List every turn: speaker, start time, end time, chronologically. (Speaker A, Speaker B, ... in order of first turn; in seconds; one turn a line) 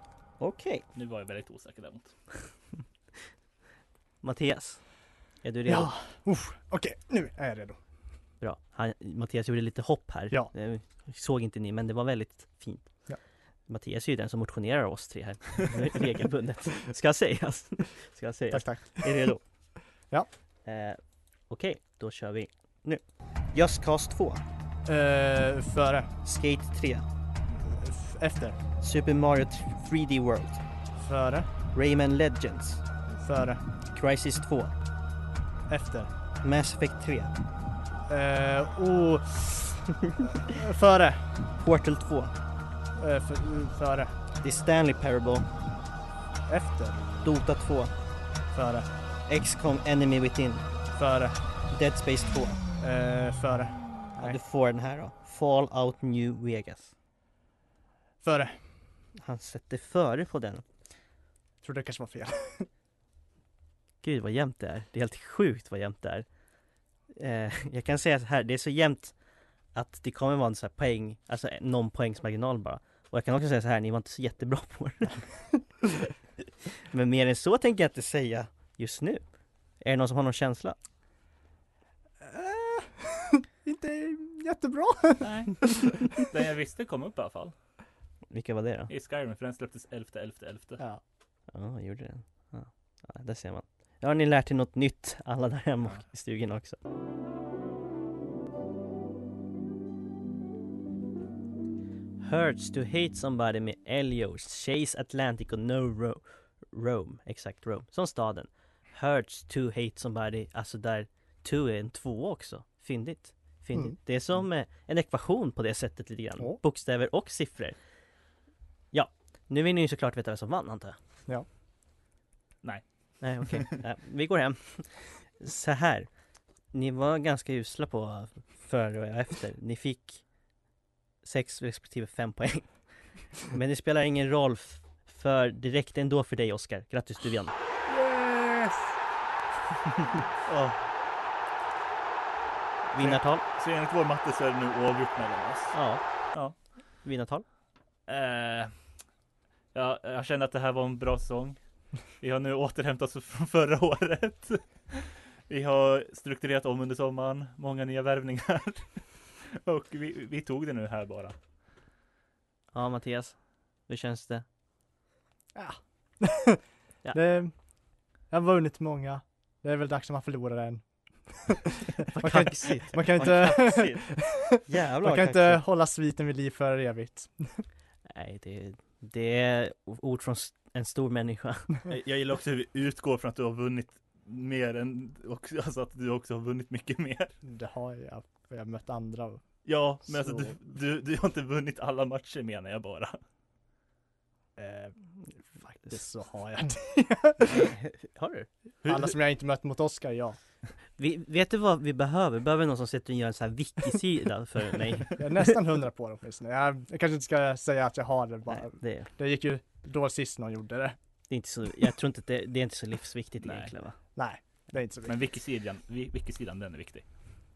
Speaker A: 0.4-0.8
Speaker B: 0.9-2.1
Speaker A: 4.2-4.8
Speaker A: 5.4-5.9
Speaker C: 5.7-7.8
Speaker A: 8.4-12.9
Speaker A: 13.7-19.4
Speaker C: 18.5-19.4
Speaker A: 20.6-23.0
Speaker A: 23.5-24.4
Speaker C: 24.9-26.1
Speaker A: 26.2-27.1
Speaker C: 27.6-28.6
Speaker A: 28.8-30.6
Speaker C: 31.0-31.5
Speaker A: 31.7-32.8
Speaker C: 33.2-33.6
Speaker A: 33.9-34.8
Speaker C: 35.7-36.1
Speaker A: 36.4-37.3
Speaker C: 38.1-41.5
Speaker A: 41.6-42.3
Speaker C: 43.0-44.1
Speaker A: 44.4-45.5
Speaker C: 46.5-47.4
Speaker A: 47.2-47.9
Speaker C: 48.5-48.9
Speaker A: 49.3-50.7
Speaker C: 50.9-51.4
Speaker A: 51.7-52.6
Speaker C: 52.8-54.4
Speaker A: 54.2-56.9
Speaker C: 58.2-58.6
Speaker A: 59.2-60.6
Speaker C: 61.6-62.7
Speaker A: 64.0-66.3
Speaker A: 67.2-69.2
Speaker A: 69.7-75.2
Speaker A: 76.9-79.2
Speaker A: 79.8-80.8
Speaker C: 82.2-85.8
Speaker B: 85.2-87.5
Speaker A: 88.3-88.9
Speaker B: 88.9-90.8
Speaker A: 91.5-96.8
Speaker A: 102.2-117.8
Speaker A: 118.9-121.0
Speaker A: 123.2-126.1
Speaker B: 123.4-123.7
Speaker A: 126.7-130.2
Speaker A: 131.2-132.7
Speaker A: 133.4-137.6
Speaker B: 137.9-138.8
Speaker B: 140.5-140.8
Speaker A: 142.9-143.4
Speaker B: 143.0-145.8
Speaker A: 145.7-146.0
Speaker A: 147.0-147.4
Speaker B: 148.1-148.7
Speaker B: 149.7-151.6
Speaker B: 152.2-161.4
Speaker A: 162.7-163.4
Speaker A: 163.9-164.4
Speaker C: 165.6-167.5
Speaker C: 168.3-177.6
Speaker A: 172.1-175.6
Speaker A: 178.1-181.8
Speaker B: 181.8-187.3
Speaker C: 187.4-189.4
Speaker B: 189.7-193.2
Speaker C: 190.1-190.5
Speaker C: 194.6-195.0
Speaker C: 195.6-197.6
Speaker A: 197.4-198.5
Speaker C: 198.8-200.4
Speaker A: 201.0-205.5
Speaker C: 205.2-211.0
Speaker A: 208.5-209.1
Speaker A: 211.3-214.0
Speaker B: 213.4-213.7
Speaker C: 214.2-215.2
Speaker B: 215.1-217.1